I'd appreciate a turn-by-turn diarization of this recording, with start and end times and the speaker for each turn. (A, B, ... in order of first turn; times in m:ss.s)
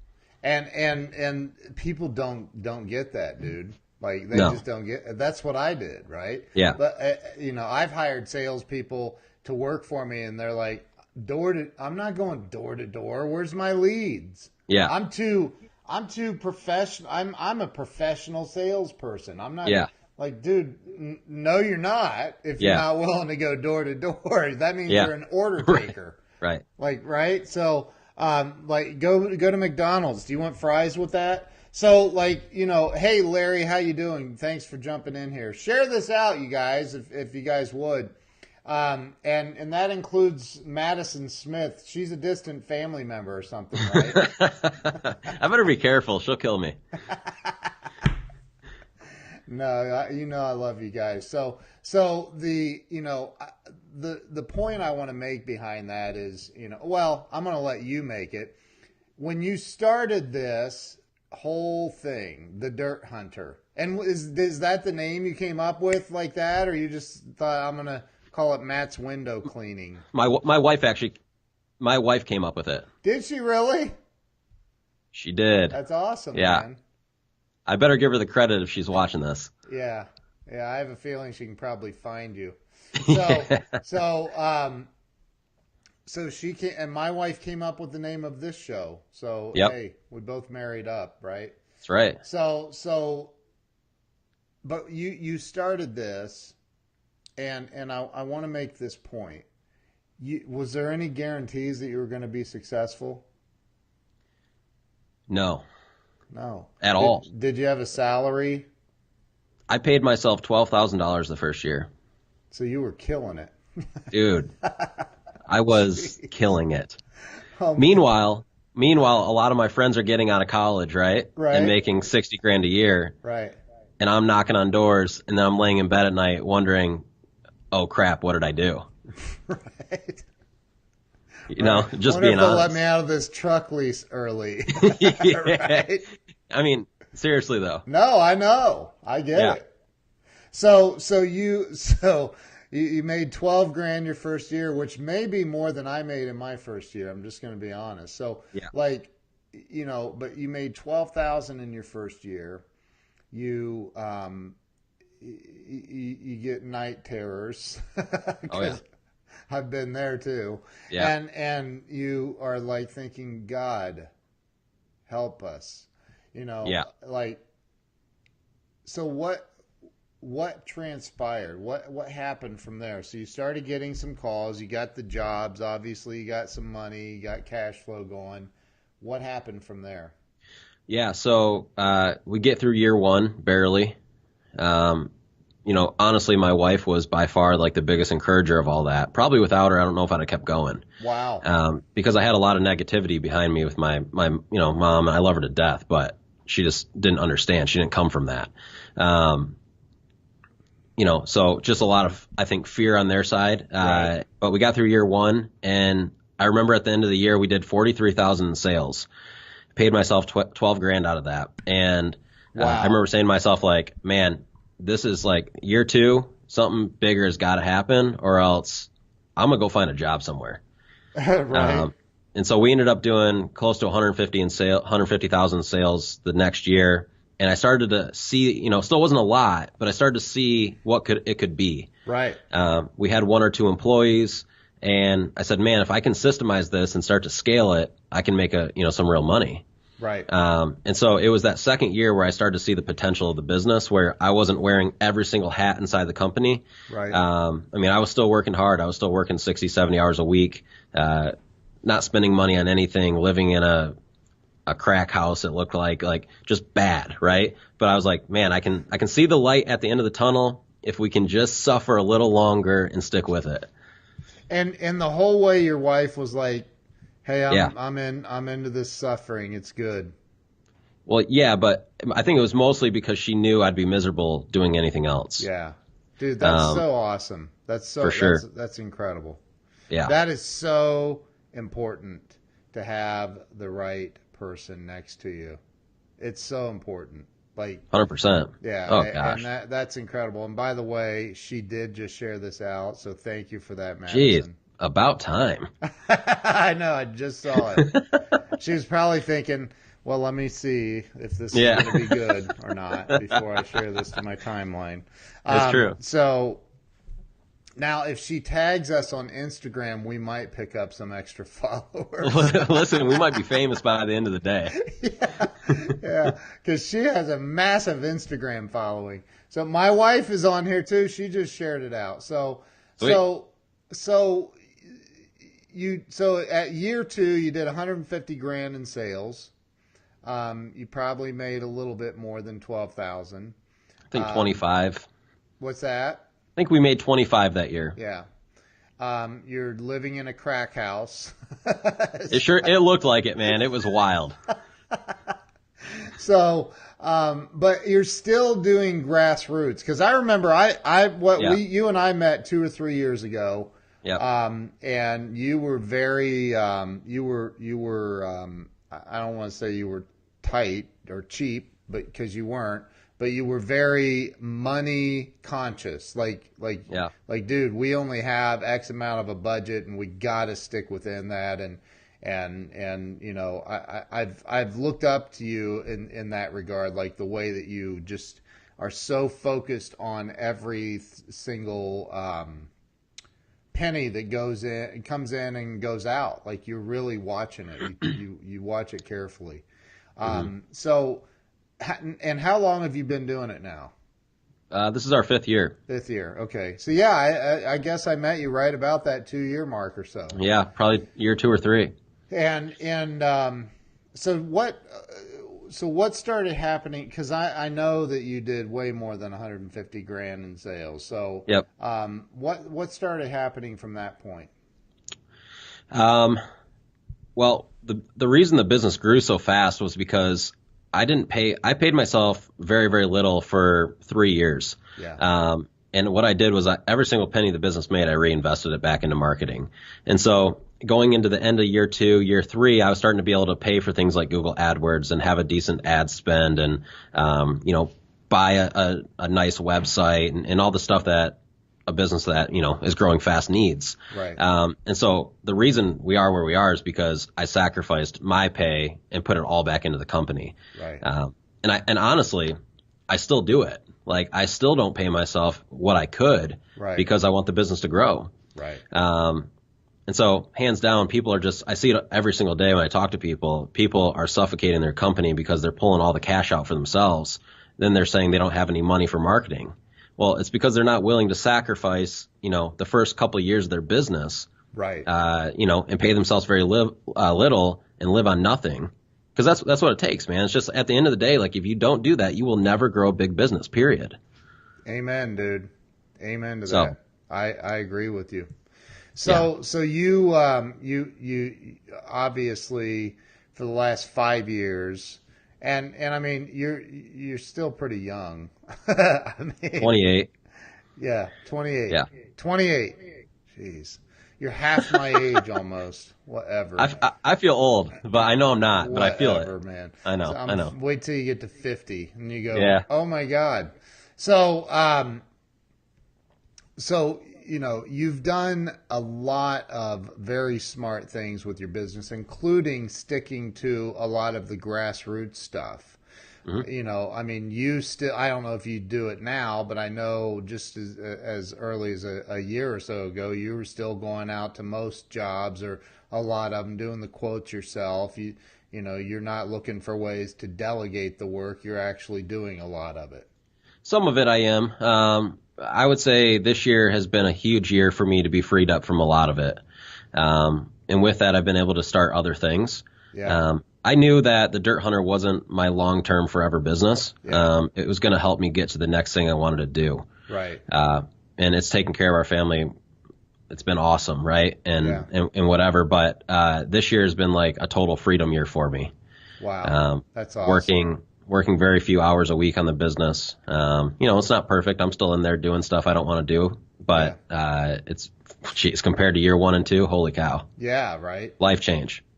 0:00.4-0:26.2 A
0:04.3-0:04.6 B
0:14.7-0:14.9 B
0:19.6-0:19.9 B
0:22.6-0:22.8 B
0:25.6-0:26.6 B
0:26.8-0:38.1 A
0:38.6-0:44.3 A
0:43.8-0:46.8 B
0:47.1-0:47.5 A
0:49.5-0:58.6 A
0:59.2-1:10.0 A
1:10.1-1:11.2 B
1:11.8-1:12.9 B
1:13.0-1:13.9 A
1:15.1-1:15.8 B
1:15.7-1:16.8 A
1:16.3-1:16.6 B
1:17.6-1:19.5 B
1:19.7-1:24.9 A
1:23.0-1:23.7 B
1:26.0-1:31.5 A
1:31.8-1:32.2 B
1:32.2-1:33.4 A
1:34.6-1:36.6 A
1:37.4-1:39.4 A
1:40.2-1:43.2 A
1:45.3-1:45.6 B
1:46.3-1:48.7 A
1:46.8-1:47.2 B
1:49.7-1:51.9 B
1:52.5-1:53.5 A
1:54.1-1:54.5 B
1:54.6-1:55.0 A
1:55.5-1:57.0 B
1:55.7-1:56.3 A
1:57.6-1:58.0 A
1:57.8-2:03.1 B
2:01.4-2:01.8 A
2:03.2-2:03.6 A
2:04.0-2:07.0 B
2:07.7-2:08.9 B
2:09.5-2:10.2 A
2:11.5-2:12.7 B
2:11.5-2:16.1 A
2:14.8-2:15.9 B
2:16.5-2:17.8 B
2:17.8-2:19.6 A
2:20.5-2:32.6 A
2:33.3-2:34.6 A
2:35.2-2:38.8 A
2:38.5-2:38.8 B
2:39.5-2:44.1 A
2:45.1-2:47.4 A
2:48.8-2:49.5 A
2:50.2-3:00.1 A
3:00.9-3:04.0 B
3:04.6-3:05.1 B
3:05.6-3:10.8 B
3:11.0-3:11.4 A
3:11.4-3:19.6 B
3:21.0-3:29.1 B
3:23.8-3:24.1 A
3:29.7-3:40.6 B
3:32.5-3:33.0 A
3:41.2-3:41.9 A
3:41.5-3:51.9 B
3:52.0-3:52.4 A
3:52.5-3:59.6 B
4:00.0-4:00.3 A
4:00.3-4:11.3 B
4:06.9-4:07.2 A
4:11.8-4:13.9 B
4:14.7-4:23.7 B
4:24.5-4:26.7 A
4:27.2-4:30.1 A
4:31.0-4:35.5 B
4:35.4-4:39.4 A
4:36.4-4:36.8 B
4:38.0-4:38.4 B
4:40.0-4:45.6 A
4:46.2-4:47.8 A
4:47.9-4:49.4 B
4:48.6-4:54.6 A
4:54.1-4:55.7 B
4:55.8-4:58.0 A
4:57.8-4:58.1 B
4:58.5-5:06.6 A
5:01.5-5:02.2 B
5:05.5-5:06.0 B
5:07.8-5:13.4 A
5:12.2-5:14.8 B
5:14.8-5:24.6 A
5:25.7-5:29.5 A
5:30.2-5:33.5 A
5:34.1-5:35.1 B
5:34.1-5:34.6 A
5:35.6-5:36.2 A
5:36.6-5:38.0 B
5:38.0-5:38.2 A
5:39.0-5:42.7 A
5:42.3-5:44.4 B
5:45.9-6:22.7 A
6:23.7-6:29.6 A
6:30.2-6:31.2 A
6:31.8-6:33.9 A
6:34.7-6:35.8 B
6:35.9-6:40.4 A
6:40.3-6:41.9 B
6:42.3-6:54.5 A
6:55.9-6:56.4 B
6:57.4-7:32.6 B
7:05.0-7:05.2 A
7:24.1-7:24.4 A
7:30.8-7:31.0 A
7:33.1-7:38.3 B
7:36.8-7:37.0 A
7:38.6-7:38.8 A
7:38.9-7:39.5 B
7:40.1-7:54.5 B
7:54.7-7:55.1 A
7:55.0-8:04.2 B
8:04.8-8:05.7 A
8:06.2-8:08.5 A
8:09.1-8:20.0 A
8:19.8-8:20.3 B
8:21.0-8:23.0 A
8:23.5-8:27.0 A
8:26.8-8:29.5 B
8:28.7-8:35.2 A
8:30.0-8:30.7 B
8:32.5-8:32.8 B
8:36.8-8:46.0 A
8:46.6-9:03.3 A
9:03.8-9:09.6 B
9:10.1-9:20.1 B
9:13.1-9:13.4 A
9:17.2-9:17.5 A
9:20.3-9:20.6 A
9:20.7-9:22.7 B
9:23.5-9:28.9 B
9:24.8-9:25.1 A
9:29.4-9:30.7 A
9:29.6-9:40.5 B
9:36.9-9:37.2 A
9:40.6-9:41.4 A
9:41.4-9:42.0 B